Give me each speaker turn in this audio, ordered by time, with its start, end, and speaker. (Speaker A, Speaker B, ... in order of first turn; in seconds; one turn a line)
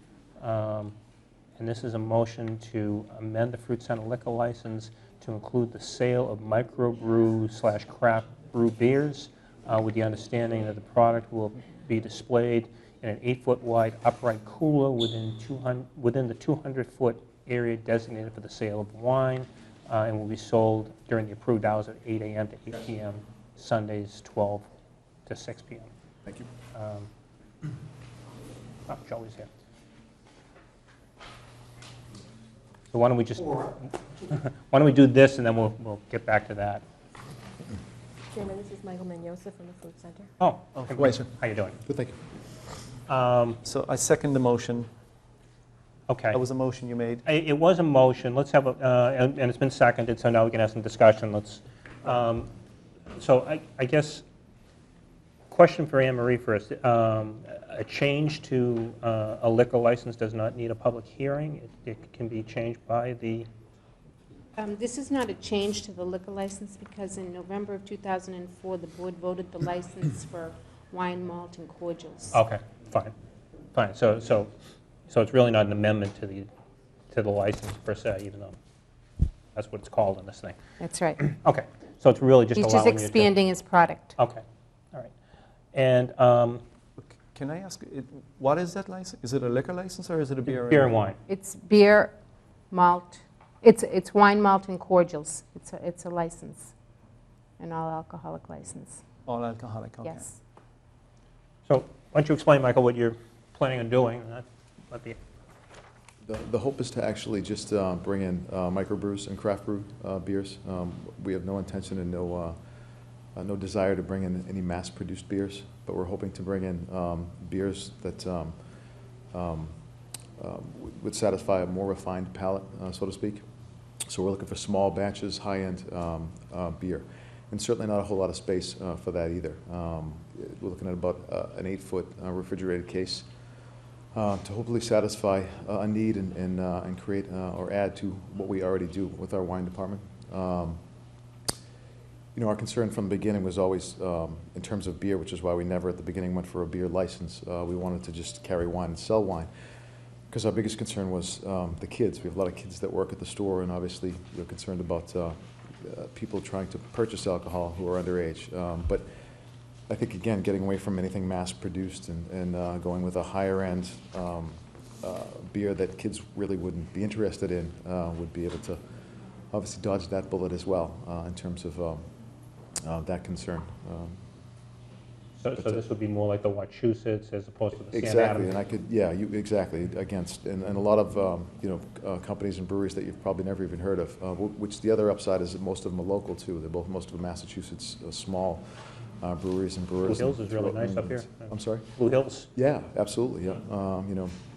Speaker A: 0.4-0.9
Speaker A: 1.6-24.7
Speaker A: 25.3-25.9
Speaker A: 26.7-27.1
Speaker A: 28.9-29.5
Speaker A: 32.9-36.8
Speaker B: 38.3-40.3
Speaker A: 40.4-41.8
Speaker C: 40.8-41.1
Speaker D: 41.9-42.1
Speaker A: 43.1-43.6
Speaker C: 43.6-44.9
Speaker A: 46.1-46.4
Speaker C: 46.3-47.2
Speaker A: 47.3-52.5
Speaker A: 53.2-54.2
Speaker A: 55.5-63.5
Speaker E: 64.6-72.4
Speaker A: 72.3-73.1
Speaker A: 73.7-74.5
Speaker A: 75.1-76.5
Speaker A: 77.1-78.6
Speaker A: 79.5-80.6
Speaker E: 80.8-81.2
Speaker A: 81.2-83.3
Speaker E: 82.5-84.2
Speaker A: 84.2-85.1
Speaker A: 85.7-86.6
Speaker C: 87.0-90.9
Speaker A: 90.5-91.2
Speaker E: 91.3-92.1
Speaker E: 92.7-96.7
Speaker E: 97.6-99.0
Speaker C: 99.3-100.3
Speaker E: 100.0-100.4
Speaker A: 101.7-105.2
Speaker D: 106.3-112.6
Speaker D: 113.4-118.6
Speaker D: 119.3-119.7
Speaker D: 120.4-123.4
Speaker D: 124.1-133.3
Speaker D: 134.1-140.8
Speaker D: 142.3-149.5
Speaker D: 150.3-159.1
Speaker D: 159.9-168.8
Speaker D: 169.5-172.0
Speaker D: 172.8-174.2
Speaker A: 175.4-178.5
Speaker D: 175.6-175.8
Speaker D: 177.9-188.7
Speaker D: 189.2-191.9
Speaker A: 190.1-192.5
Speaker D: 192.6-194.3